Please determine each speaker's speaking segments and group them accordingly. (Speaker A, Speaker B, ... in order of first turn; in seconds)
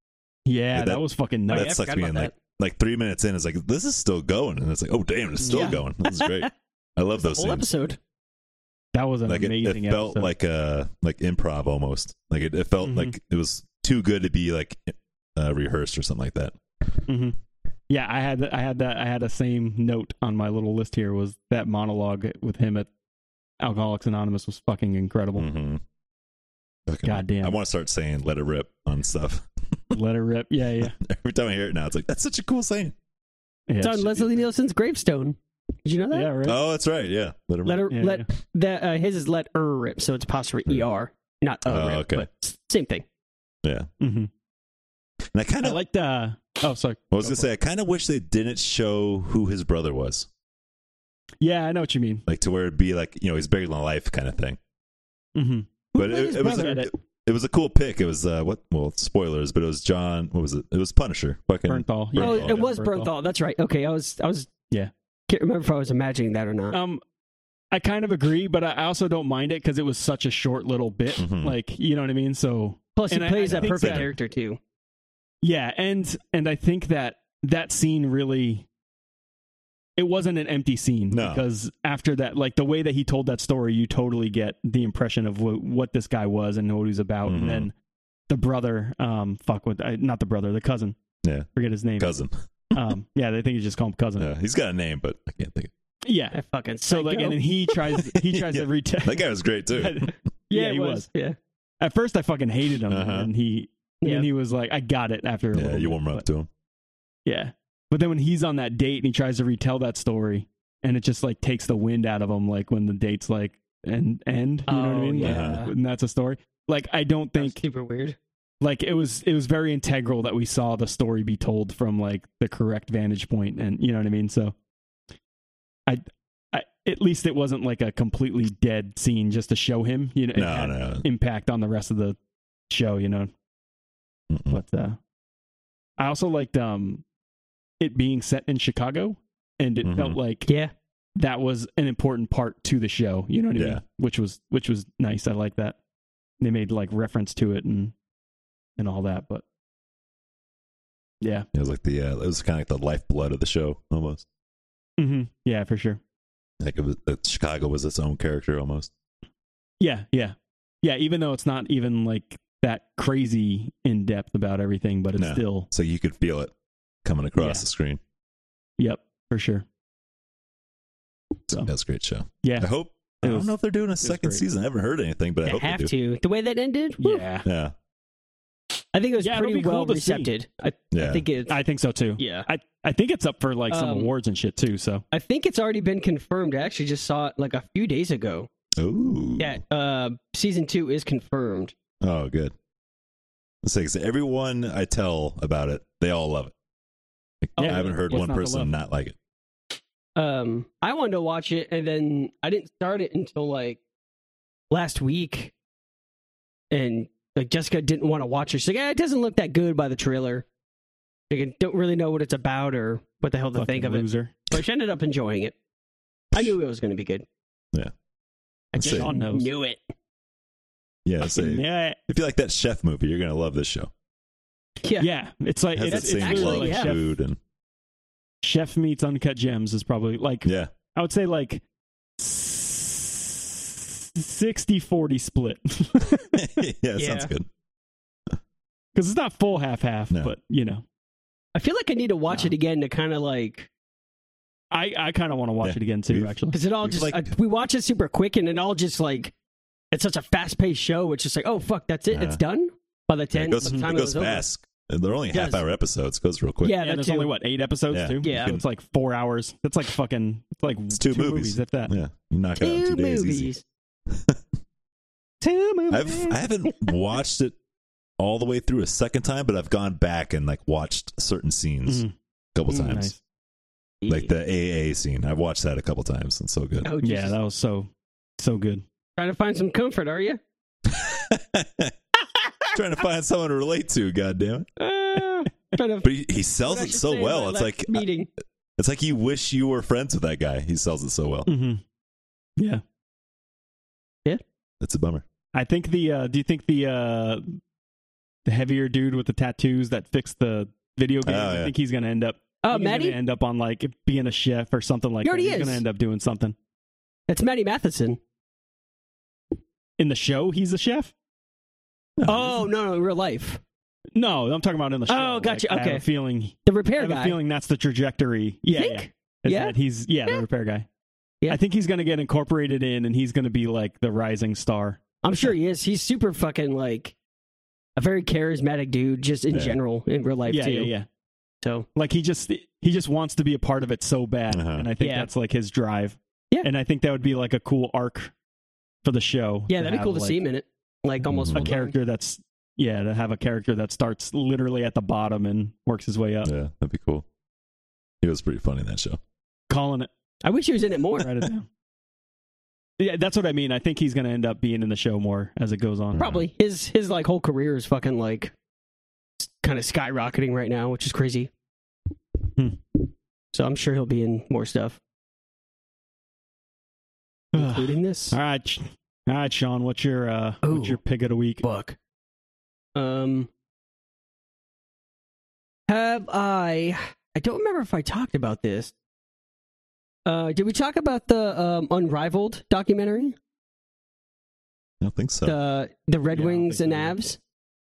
Speaker A: 0.5-1.8, 5.4-5.8, 8.9-10.3, 12.8-13.1, 17.1-17.4, 17.9-22.9, 23.6-25.5, 27.0-27.6, 29.9-30.9, 33.7-34.4, 36.1-36.6, 37.9-38.2, 44.0-44.3, 45.6-47.5, 51.4-52.2, 55.3-56.9, 61.7-63.1, 66.7-67.0, 67.7-74.1, 75.4-78.7, 80.0-87.7, 88.3-91.0, 91.5-92.2, 92.7-94.3, 96.0-96.4, 96.9-101.1, 101.8-106.2, 107.2-117.6, 118.6-124.5, 125.9-132.2, 132.7-133.3, 134.5-135.0, 136.0-137.0, 137.8-140.5, 141.2-145.8, 146.4-147.9, 148.8-149.4, 151.2-151.5, 155.0-156.0, 159.8-165.7, 167.4-167.6, 168.8-169.6, 172.4-172.7, 173.2-174.4, 177.0-177.4, 179.2-180.3, 181.5-185.0, 197.6-198.7, 213.5-214.5, 218.8-219.5, 221.2-222.0, 225.0-227.2, 228.4-231.6, 232.2-236.6, 238.9-240.8, 244.7-246.6, 253.6-253.9, 256.8-261.9, 271.9-272.1, 272.7-273.2, 277.0-278.8, 291.4-291.8, 292.6-292.8, 295.5-297.6, 298.4-306.6, 310.0-311.1, 314.1-320.9, 321.5-325.0, 330.5-331.1, 331.9-338.3, 339.0-340.4, 341.5-346.5, 349.7-350.1, 351.2-351.7, 353.0-356.2, 367.5-371.6, 386.3-387.1
Speaker B: 0.7-7.7, 9.3-16.6, 25.4-25.8, 26.9-29.9, 31.0-32.9, 36.4-37.8, 41.6-42.3, 43.6-43.9, 45.3-45.8, 47.1-50.3, 52.3-54.6, 56.0-62.6, 71.2-71.5, 73.4-74.1, 81.1-81.4, 87.3-87.7, 91.2-91.5, 92.0-92.7, 94.2-95.7, 98.1-100.1, 102.9-103.3, 105.5-106.5, 115.2-115.7, 130.3-131.0, 134.3-134.6, 139.8-140.2, 143.6-143.8, 151.5-154.2, 156.6-158.9, 165.2-166.5, 167.0-168.0, 171.5-175.9, 177.4-177.7, 180.9-181.2, 188.8-189.6, 192.0-192.5, 193.6-196.5, 197.4-199.2, 218.7-219.1, 221.0-223.9, 225.7-227.4, 230.4-230.7, 236.3-237.5, 245.6-247.3, 252.1-252.4, 253.3-256.8, 257.9-258.6, 260.9-263.5, 264.1-264.4, 265.9-267.6, 268.2-272.0, 272.5-273.1, 274.1-276.9, 280.9-281.9, 282.7-284.7, 286.0-288.0, 288.8-291.5, 294.8-295.2, 301.2-301.7, 312.2-312.5, 329.5-329.8, 334.5-334.9, 341.3-341.6, 346.4-347.2, 348.2-349.2, 356.1-356.5, 385.0-385.6
Speaker C: 1.5-2.3, 5.5-6.5, 7.2-8.0, 33.8-36.3, 37.6-43.0, 56.0-56.8, 62.2-64.5, 65.3-66.8, 73.0-74.6, 96.3-97.4, 100.5-101.3, 114.7-115.7, 117.4-118.2, 140.5-140.7, 175.4-177.2, 178.9-181.5, 182.2-182.5, 183.7-184.1, 185.1-188.5, 189.4-191.7, 197.6-197.9, 200.2-203.8, 204.7-205.5, 206.7-210.4, 211.3-215.5, 216.3-217.2, 218.7-219.9, 225.9-226.9, 237.0-237.3, 241.5-243.7, 246.5-249.3, 249.9-254.4, 255.3-255.6, 256.6-257.4, 258.2-258.6, 262.6-263.6, 265.4-266.9, 274.0-274.3, 276.8-277.4, 279.2-280.4, 284.8-286.1, 286.6-288.3, 302.6-303.2, 305.2-305.8, 307.3-308.2, 312.2-313.6, 315.1-316.0, 316.6-317.4, 318.8-320.4, 325.2-327.1, 328.0-330.9, 331.6-331.9, 335.0-335.3, 339.7-341.9, 350.4-351.4, 356.2-358.5, 359.4-361.5, 363.5-365.0, 367.5-368.4, 370.6-371.0, 371.6-371.9, 372.9-373.5, 375.9-378.9, 380.2-383.3, 385.4-387.4